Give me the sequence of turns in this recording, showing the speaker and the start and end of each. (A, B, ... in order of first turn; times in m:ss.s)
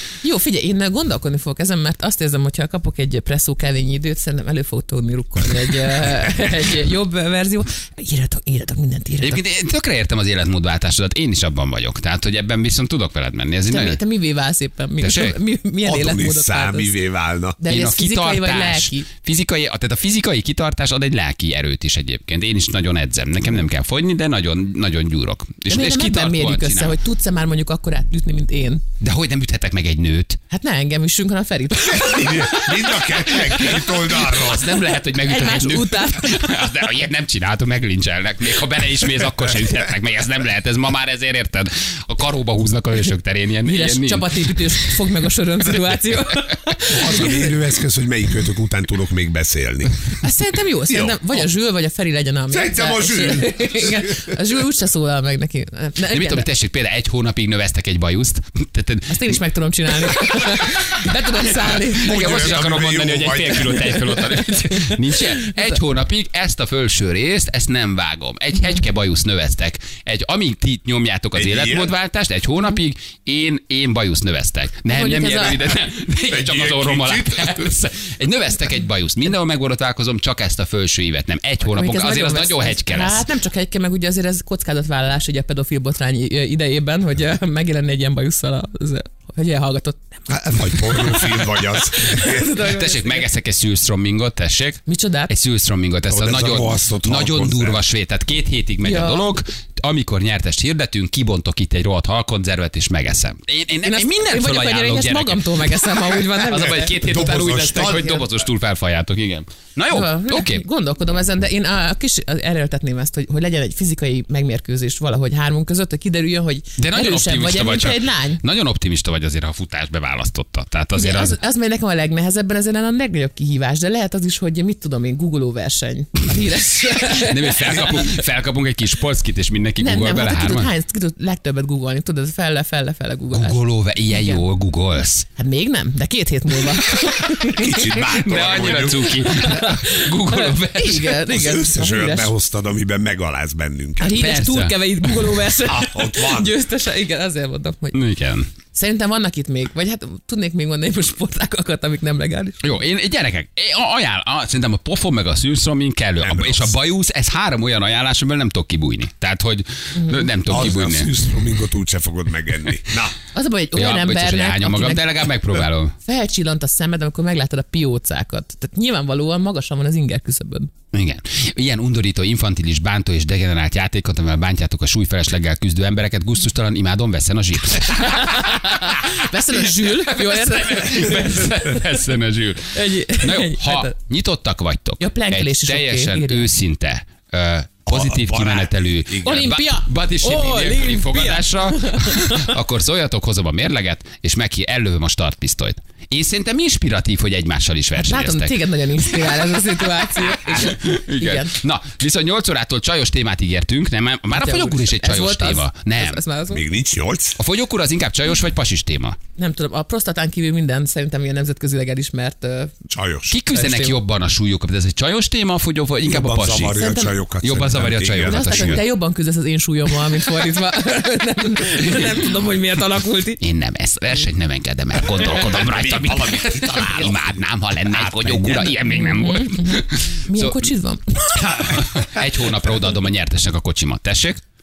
0:00.2-0:09.4 A
0:09.2-0:14.0 B
0:13.7-0:16.9 A
0:15.0-0:15.4 B
0:15.8-0:17.6 C
0:17.6-0:19.0 A
0:17.7-0:27.0 B
0:25.7-0:28.8 A
0:29.0-0:30.4 B
0:30.5-0:32.7 A
0:31.8-0:34.7 C
0:33.3-0:44.7 B
0:35.1-0:36.8 A
0:43.6-0:47.6 A
0:46.9-0:50.2 C
0:50.2-0:56.5 A
0:50.9-0:51.5 C
0:52.5-0:54.4 C
0:56.1-0:59.4 B
0:59.1-1:02.5 A
1:00.0-1:00.8 B
1:01.7-1:23.3 B
1:02.0-1:04.0 C
1:03.9-1:05.8 A
1:11.3-1:11.9 C
1:14.9-1:15.7 A
1:16.3-1:17.7 C
1:21.6-1:33.3 A
1:30.3-1:32.5 C
1:32.5-1:50.6 B
1:34.8-1:35.3 A
1:36.1-1:37.8 C
1:38.8-1:39.2 A
1:43.8-1:47.0 A
1:46.9-1:48.3 C
1:49.9-1:58.4 A
1:56.8-2:01.4 B
2:00.9-2:08.2 A
2:07.0-2:10.7 B
2:09.8-2:14.4 A
2:13.3-2:15.2 B
2:15.4-2:18.0 A
2:17.5-2:19.3 C
2:17.9-2:21.2 B
2:19.2-2:22.3 A
2:21.3-2:24.2 C
2:24.0-2:28.0 A
2:24.1-2:24.8 B
2:25.6-2:26.5 C
2:27.9-2:28.5 B
2:28.7-2:32.6 A
2:32.6-2:41.1 B
2:36.2-2:36.8 C
2:39.9-2:40.3 A
2:40.4-2:43.1 C
2:43.3-2:50.7 A
2:43.7-2:45.9 B
2:50.9-2:59.0 B
2:57.9-3:01.5 A
2:59.7-3:19.3 B
3:02.7-3:03.9 A
3:05.0-3:06.5 A
3:07.9-3:09.5 C
3:09.2-3:12.5 A
3:18.0-3:21.5 A
3:20.0-3:26.2 B
3:24.3-3:26.6 A
3:26.5-3:27.4 C
3:27.4-3:29.2 B
3:29.4-3:32.7 A
3:32.9-3:33.4 C
3:33.3-3:36.9 B
3:33.5-3:34.0 A
3:36.1-3:38.8 C
3:36.7-3:37.1 A
3:37.4-3:38.9 B
3:38.2-3:43.4 A
3:43.4-3:50.7 B
3:45.1-3:48.8 C
3:48.8-3:51.6 A
3:51.4-3:54.4 B